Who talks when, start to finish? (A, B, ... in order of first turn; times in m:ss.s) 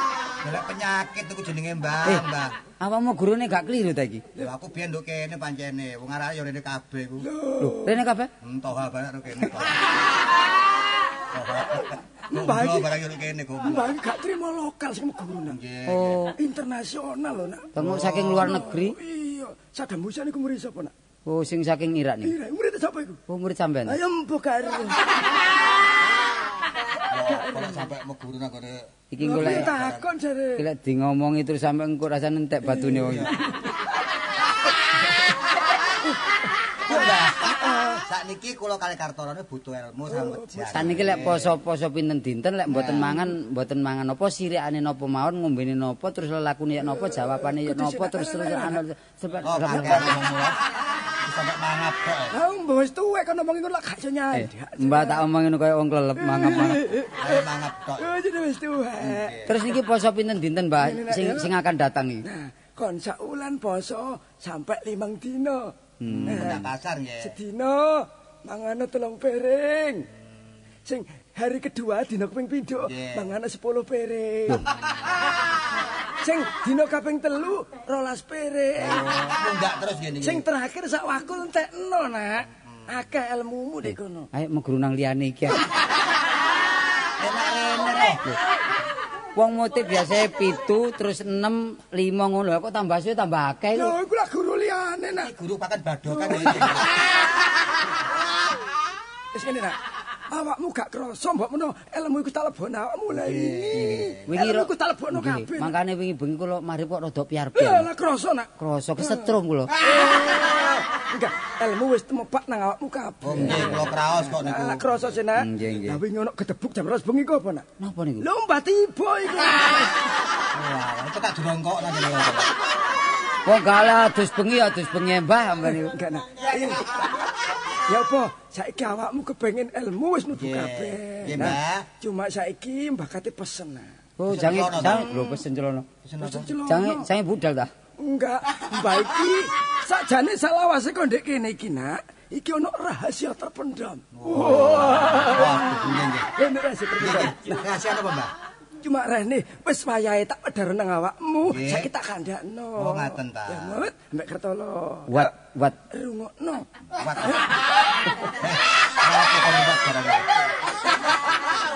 0:00.4-0:02.5 A
0:02.8-0:04.2 B
0:04.4-0:07.3 A
0:07.2-0:08.0 C
0:07.6-0:08.3 B
0:08.4-0:09.8 A
0:11.3-0:13.9 A
0:12.3-0:12.9 C
0:13.6-0:15.6 C
0:15.5-0:16.2 A
0:15.9-0:16.4 B
0:16.4-0:17.7 C
0:17.7-0:19.0 B
0:17.8-0:18.6 A
0:18.2-0:20.9 C
0:21.2-0:22.4 B
0:22.2-0:23.2 C
0:23.3-0:24.0 B
0:23.8-0:25.0 C
0:27.1-0:30.1 A
0:27.2-0:27.8 C
0:29.1-0:29.7 B
0:29.2-0:30.6 C
0:30.6-0:33.3 B
0:32.6-0:33.4 C
0:33.1-0:33.3 A
0:36.8-0:37.5 A
0:36.9-0:38.0 C
0:38.0-0:41.5 A
0:40.1-0:40.8 C
0:40.7-0:50.1 B
0:42.7-0:43.1 A
0:46.9-0:48.8 C
0:49.4-0:50.6 A
0:51.2-0:52.4 A
0:52.3-0:55.2 C
0:54.3-0:56.8 B
0:56.2-0:57.4 C
0:57.2-0:58.2 A
0:58.0-0:59.5 C
0:59.0-0:59.5 A
0:59.5-1:02.2 B
1:00.8-1:01.5 C
1:02.2-1:05.7 C
1:06.0-1:06.6 B
1:06.1-1:07.4 A
1:06.3-1:06.7 C
1:07.2-1:10.1 C
1:10.8-1:14.6 C
1:12.8-1:13.3 A
1:16.2-1:19.1 C
1:18.8-1:20.4 A
1:20.2-1:24.3 C
1:24.3-1:25.6 B
1:27.2-1:28.2 A
1:29.4-1:34.0 B
1:33.7-1:35.3 C
1:35.1-1:36.9 A
1:36.2-1:36.7 C
1:39.3-1:39.8 C
1:40.3-1:45.7 C
1:43.1-1:44.2 A
1:44.2-1:47.9 B
1:47.5-1:57.6 C
1:48.6-1:49.7 B
1:53.2-1:55.2 A
1:53.3-1:53.8 B
1:55.4-1:56.0 B
1:57.8-1:58.2 B
1:58.2-1:59.9 C
2:00.5-2:02.5 A
2:03.4-2:06.0 B
2:05.8-2:07.0 C
2:07.9-2:13.9 C
2:10.3-2:11.9 A
2:14.2-2:15.9 B
2:14.2-2:15.2 A
2:16.0-2:16.5 A
2:16.2-2:17.1 C
2:16.6-2:17.7 B
2:18.0-2:27.6 C
2:24.1-2:26.3 A
2:27.0-2:28.3 A
2:28.8-2:35.3 C
2:31.4-2:31.9 A
2:32.8-2:33.8 A
2:35.1-2:35.8 B
2:35.9-2:36.6 C
2:36.9-2:37.4 A
2:38.4-2:40.4 A